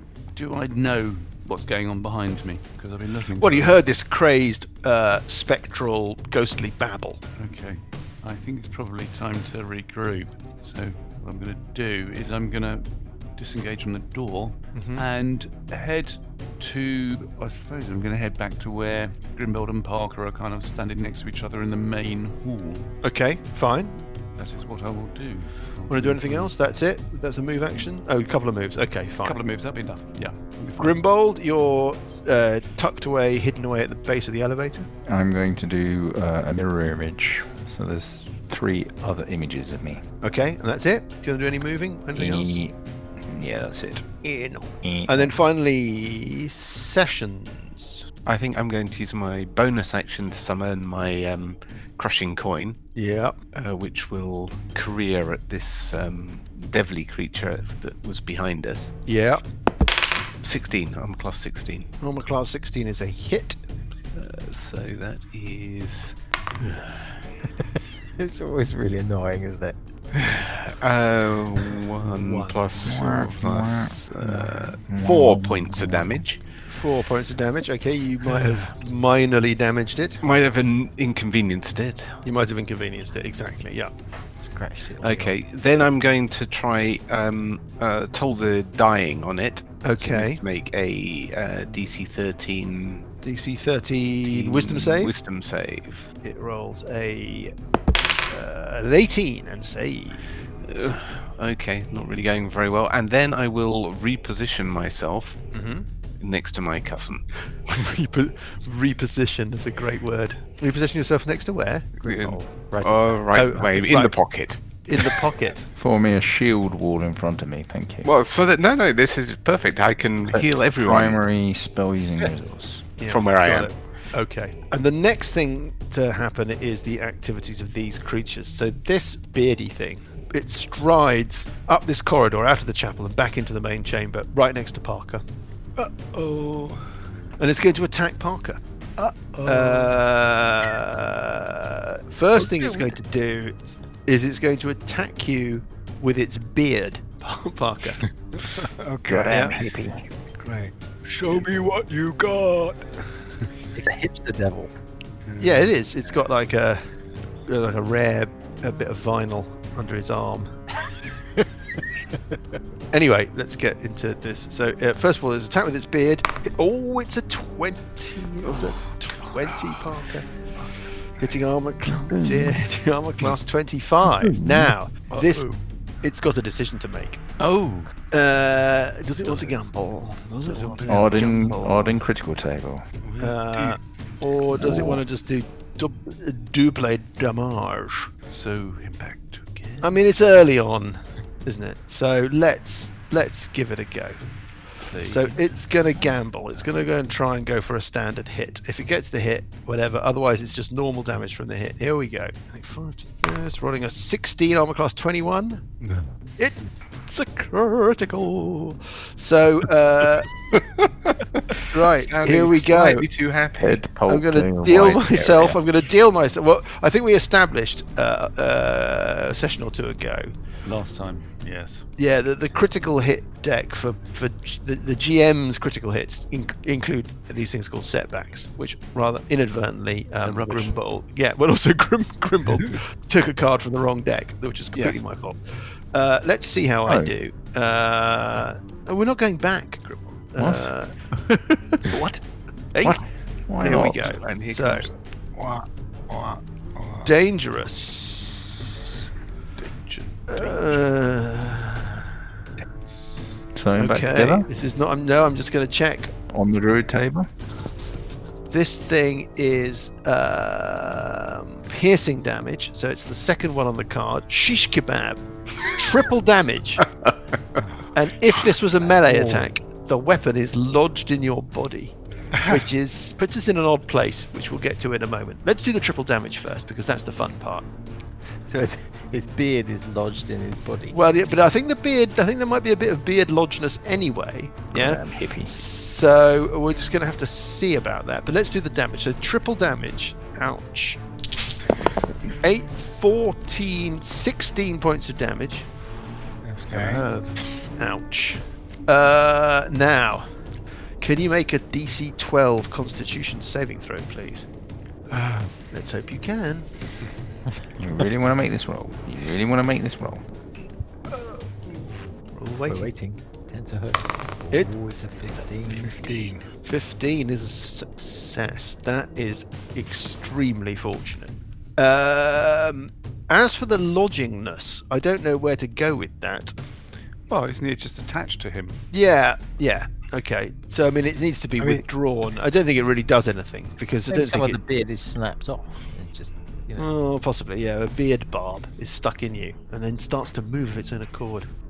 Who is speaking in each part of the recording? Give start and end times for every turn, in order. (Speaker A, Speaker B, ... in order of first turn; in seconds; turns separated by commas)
Speaker A: 0.3-3.7, Speaker B: 3.4-7.2, Speaker A: 7.4-22.9, Speaker B: 14.7-15.0, Speaker B: 23.0-24.1, Speaker A: 24.4-26.5, Speaker B: 25.9-29.4, Speaker A: 29.2-30.9, Speaker B: 30.8-34.9, Speaker C: 35.1-40.0, Speaker B: 40.2-42.6, Speaker C: 42.1-44.0, Speaker B: 44.2-48.0, Speaker C: 44.8-45.4, Speaker D: 48.3-52.8, Speaker B: 53.0-53.4, Speaker D: 53.5-59.0, Speaker B: 59.1-59.4, Speaker D: 60.4-61.9, Speaker B: 62.0-63.6, Speaker D: 64.1-66.2, Speaker E: 68.2-69.8, Speaker D: 70.7-76.4, Speaker C: 72.8-76.1, Speaker B: 76.7-80.2, Speaker D: 80.2-82.2, Speaker B: 82.2-83.9, Speaker E: 84.4-85.4, Speaker D: 85.0-93.1, Speaker B: 89.8-90.4, Speaker B: 93.2-95.1, Speaker D: 94.3-96.1, Speaker B: 96.2-97.5, Speaker B: 98.3-101.0, Speaker D: 100.6-105.4, Speaker B: 105.5-105.9, Speaker D: 106.2-107.2, Speaker B: 107.6-111.9, Speaker D: 112.0-114.6, Speaker E: 112.0-113.6, Speaker B: 113.3-114.2, Speaker B: 114.8-115.7, Speaker C: 115.8-118.1, Speaker D: 118.0-121.2, Speaker C: 120.3-123.0, Speaker B: 123.0-135.2, Speaker D: 123.0-123.7, Speaker F: 135.8-136.8, Speaker B: 137.4-138.6, Speaker F: 139.0-140.0, Speaker B: 139.5-143.6, Speaker B: 144.1-148.1, Speaker F: 148.4-149.7, Speaker E: 149.1-150.0, Speaker B: 149.2-149.6, Speaker F: 150.4-152.9, Speaker E: 153.8-154.7, Speaker F: 155.3-156.2, Speaker B: 155.4-156.8, Speaker B: 157.5-160.5, Speaker B: 162.9-170.3, Speaker B: 171.2-177.2, Speaker A: 177.4-177.9, Speaker B: 178.1-182.0, Speaker A: 179.3-179.5, Speaker A: 180.5-180.9, Speaker C: 180.9-182.8, Speaker F: 183.0-183.8, Speaker B: 183.2-188.1, Speaker C: 184.6-185.0, Speaker A: 188.3-189.9, Speaker B: 189.8-194.2, Speaker A: 194.9-195.4, Speaker B: 195.0-205.6, Speaker B: 206.4-210.3, Speaker D: 211.5-213.9, Speaker B: 211.7-213.1, Speaker C: 213.6-215.6, Speaker B: 214.1-220.3, Speaker A: 220.7-221.8, Speaker B: 222.0-240.9, Speaker A: 230.2-230.7, Speaker A: 234.7-235.0, Speaker C: 236.9-237.1, Speaker C: 240.4-240.7, Speaker B: 242.7-243.0, Speaker C: 242.8-244.2, Speaker B: 243.6-244.9, Speaker D: 243.6-244.9, Speaker F: 245.4-247.1, Speaker B: 247.0-249.0, Speaker A: 249.6-250.7, Speaker B: 250.3-252.1, Speaker F: 252.6-253.1, Speaker C: 253.6-254.5, Speaker B: 253.8-256.1, Speaker C: 256.3-257.3, Speaker B: 258.5-266.9, Speaker B: 267.9-271.9, Speaker F: 272.3-272.7, Speaker B: 272.5-277.7, Speaker E: 278.4-281.0, Speaker B: 280.9-291.0, Speaker C: 284.7-285.5, Speaker B: 292.3-295.7, Speaker F: 296.4-297.1, Speaker A: 296.7-297.3, Speaker B: 297.8-300.4, Speaker B: 301.0-304.5, Speaker F: 305.1-305.5, Speaker B: 305.7-306.7, Speaker C: 307.8-310.2, Speaker F: 311.1-311.9, Speaker B: 312.3-312.9, Speaker E: 312.7-316.3, Speaker B: 314.5-315.1, Speaker F: 315.7-316.5, Speaker B: 316.6-326.6, Speaker A: 327.3-328.8, Speaker B: 328.9-334.6, Speaker F: 331.6-331.8, Speaker E: 334.1-336.9, Speaker B: 336.8-341.5